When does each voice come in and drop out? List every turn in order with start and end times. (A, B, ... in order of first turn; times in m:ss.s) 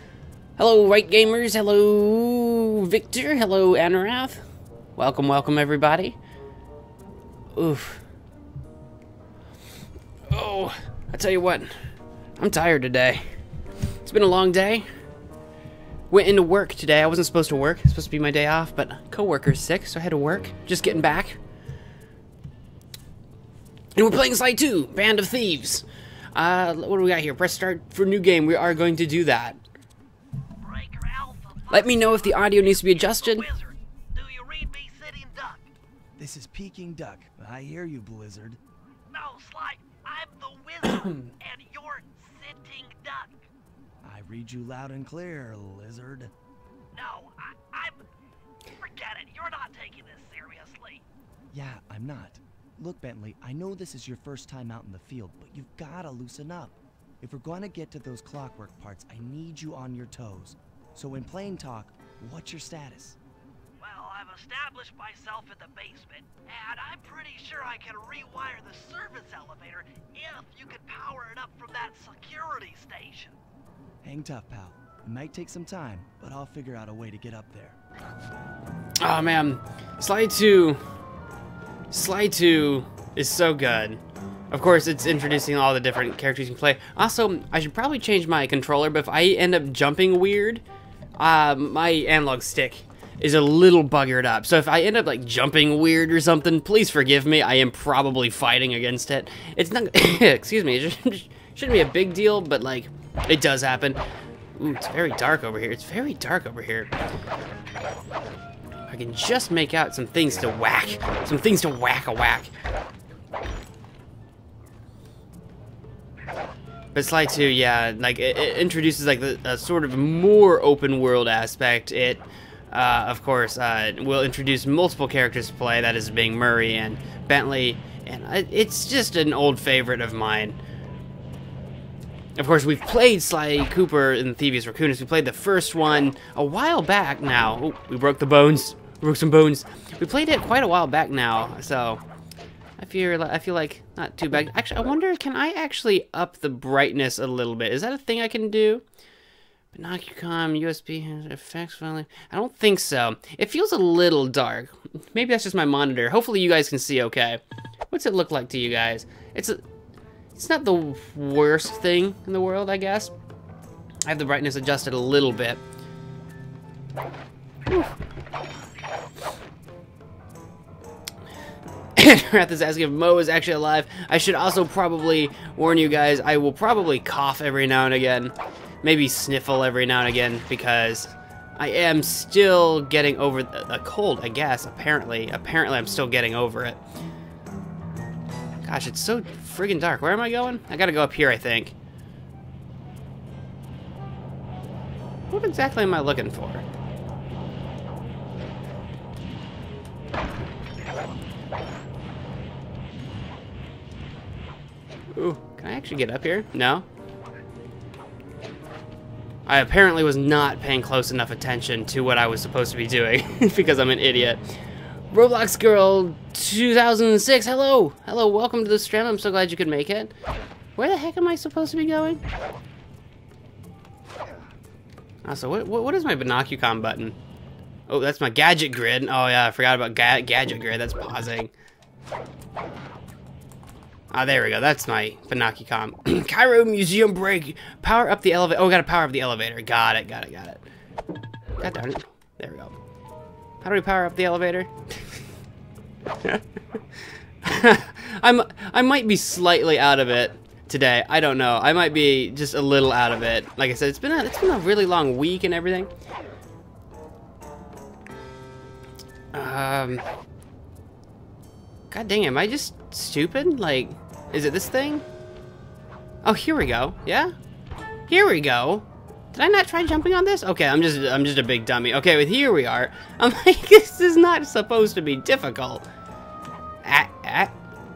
0:00.6-0:04.4 A
0:05.0-0:06.2 A
0:07.6-0:08.0 A
0:10.3-0:11.7 A
0:12.4-0:13.2 A
0:14.0-0:14.8 A
0:16.1-0:21.4 A
0:23.9-0:29.6 A
0:30.6-0:35.7 B
0:31.7-0:33.5 A
0:36.2-0:38.6 C
0:39.1-0:43.4 B
0:41.0-0:41.3 A
0:44.0-0:46.3 C
0:46.9-0:48.0 B
0:48.7-0:51.0 B
0:51.5-1:03.2 C
1:03.8-1:13.4 B
1:14.0-1:17.8 C
1:19.0-1:20.8 A
1:21.9-1:30.6 A
1:31.2-1:44.0 A
1:44.6-1:46.9 A
1:48.9-1:52.5 A
1:56.9-2:10.6 A
2:12.4-2:22.0 A
2:22.8-2:28.8 A
2:29.7-2:39.6 A
2:40.3-2:43.1 A
2:44.0-2:45.6 A
2:52.0-3:06.8 A
3:08.6-3:11.7 A
3:15.3-3:16.6 A
3:25.1-3:26.8 A
3:29.4-3:34.4 A
3:35.1-3:40.1 A
3:40.8-3:42.2 A
3:45.2-3:47.2 A
3:47.9-3:51.5 A
3:54.1-4:00.6 A
4:01.6-4:02.8 A
4:03.6-4:05.1 A
4:07.4-4:15.9 A
4:19.3-4:20.0 A
4:21.9-4:25.0 A
4:26.2-4:27.3 A
4:28.1-4:35.8 A
4:36.8-4:37.5 A